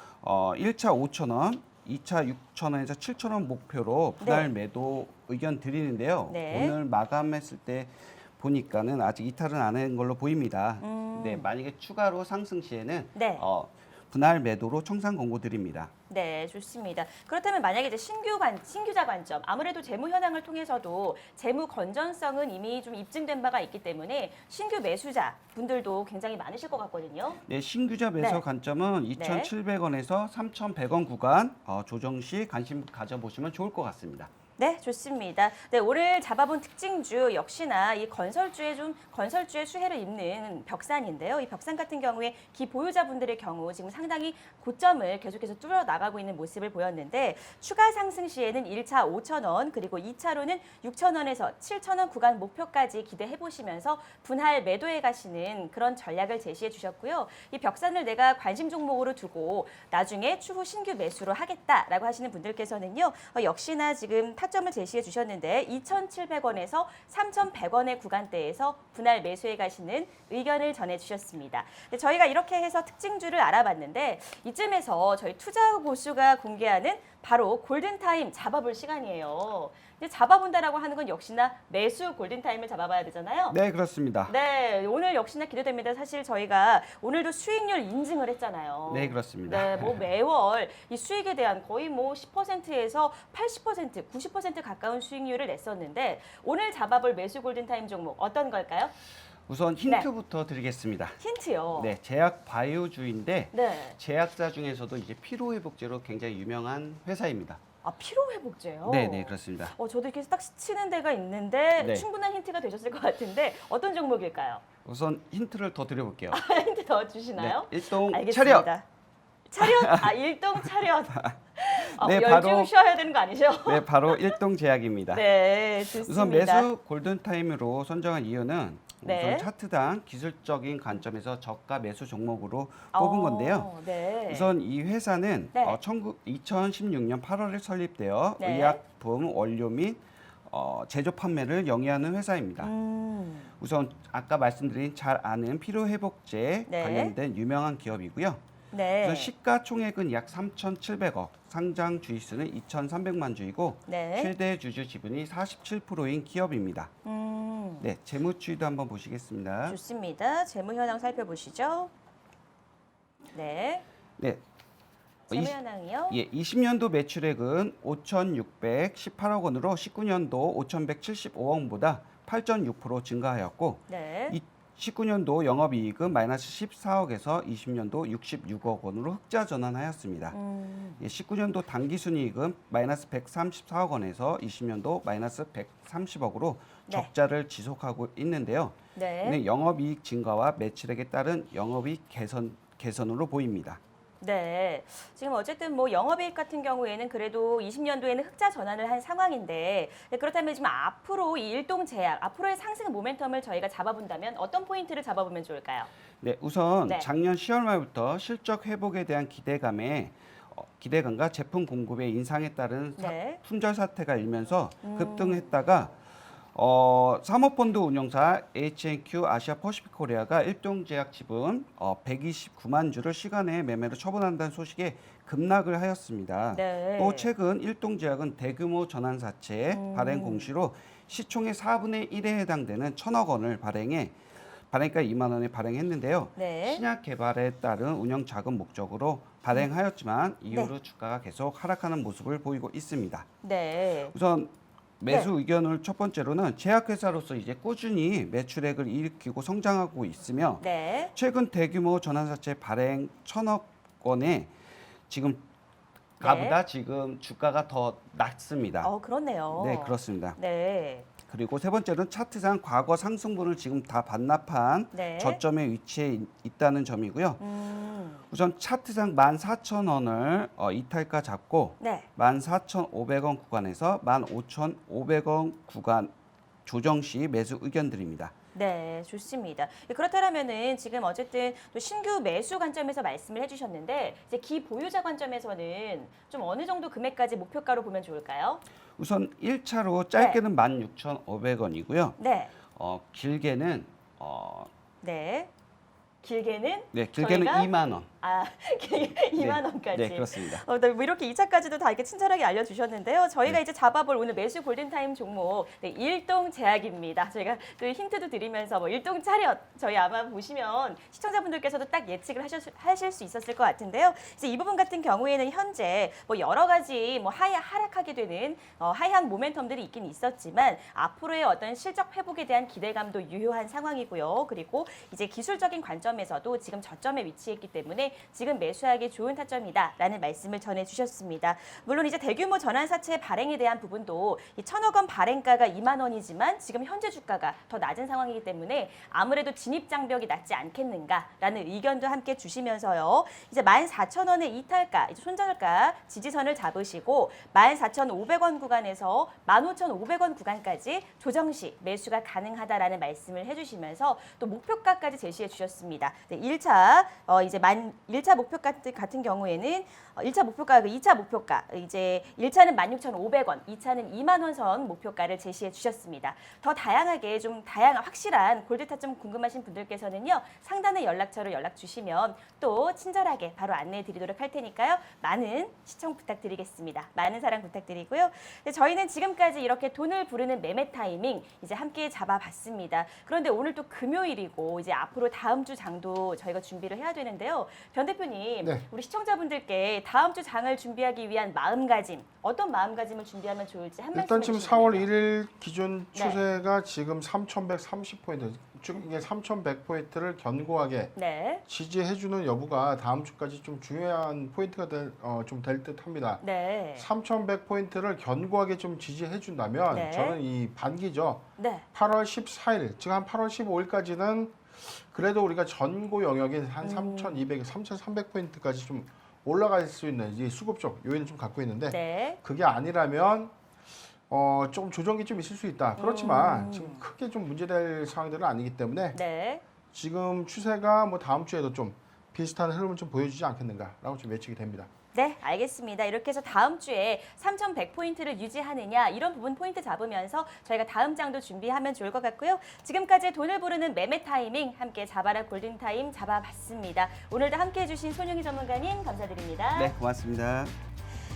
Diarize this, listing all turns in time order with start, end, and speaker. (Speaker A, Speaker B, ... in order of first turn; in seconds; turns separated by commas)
Speaker A: 0.2-15.9, Speaker B: 4.2-4.5, Speaker B: 6.3-6.7, Speaker B: 10.8-11.5, Speaker B: 13.1-13.4, Speaker B: 16.1-27.4, Speaker A: 27.5-34.3, Speaker B: 28.2-28.4, Speaker B: 29.1-29.5, Speaker B: 34.6-83.6, Speaker A: 83.5-84.3, Speaker B: 84.2-98.9, Speaker A: 88.9-90.0, Speaker A: 99.5-101.2, Speaker B: 99.8-100.1, Speaker B: 101.2-101.9, Speaker A: 101.7-107.6, Speaker B: 103.5-104.0, Speaker B: 107.8-114.6, Speaker A: 108.8-109.7, Speaker A: 111.8-112.0, Speaker A: 114.8-116.4, Speaker B: 116.3-118.8, Speaker A: 117.4-118.7, Speaker B: 119.5-124.4, Speaker A: 119.6-120.1, Speaker A: 122.0-122.7, Speaker A: 123.6-125.3, Speaker B: 125.1-126.7, Speaker A: 125.8-142.7, Speaker B: 129.0-129.5, Speaker B: 132.9-134.5, Speaker B: 138.4-138.8, Speaker B: 142.6-143.5, Speaker A: 143.6-148.4, Speaker B: 146.7-147.1, Speaker B: 148.7-149.3, Speaker A: 149.0-156.9, Speaker B: 153.8-154.3, Speaker B: 157.0-157.9, Speaker A: 157.8-159.8, Speaker B: 159.7-161.9, Speaker B: 163.3-163.8, Speaker A: 165.3-165.5, Speaker B: 165.3-166.2, Speaker A: 166.1-180.4, Speaker B: 173.9-174.4, Speaker B: 180.3-181.0, Speaker A: 181.0-193.8, Speaker B: 188.9-189.4, Speaker B: 194.2-205.9, Speaker A: 206.2-216.0, Speaker B: 213.0-213.4, Speaker B: 214.8-215.5, Speaker A: 216.5-234.2, Speaker B: 226.5-227.3, Speaker B: 229.7-230.5, Speaker A: 234.7-243.2, Speaker B: 236.3-236.8, Speaker B: 243.4-244.1, Speaker A: 244.1-254.5, Speaker B: 250.6-251.1, Speaker A: 255.1-255.4, Speaker A: 256.2-258.9, Speaker B: 256.2-256.6, Speaker B: 258.8-261.1, Speaker A: 259.5-260.4, Speaker A: 261.3-267.4, Speaker B: 264.9-265.4, Speaker B: 267.4-268.2, Speaker A: 268.3-276.1, Speaker B: 271.8-272.1, Speaker A: 276.6-278.3, Speaker B: 278.5-288.6, Speaker A: 289.0-292.2, Speaker B: 290.1-290.4, Speaker B: 292.2-292.5, Speaker A: 292.7-294.7, Speaker B: 295.0-295.5, Speaker B: 296.2-297.7, Speaker A: 296.9-298.1, Speaker B: 298.2-395.1, Speaker A: 299.4-300.6, Speaker C: 394.1-401.1, Speaker B: 396.1-396.4, Speaker B: 401.1-401.6, Speaker C: 401.7-406.4, Speaker B: 406.4-407.1, Speaker C: 406.9-411.4, Speaker B: 409.9-410.4, Speaker B: 411.6-411.9, Speaker C: 411.9-423.5, Speaker B: 416.8-417.4, Speaker B: 421.9-422.4, Speaker C: 424.3-429.2, Speaker B: 426.0-427.0, Speaker B: 429.1-429.6, Speaker C: 429.9-434.9, Speaker B: 435.1-449.9, Speaker A: 449.7-450.7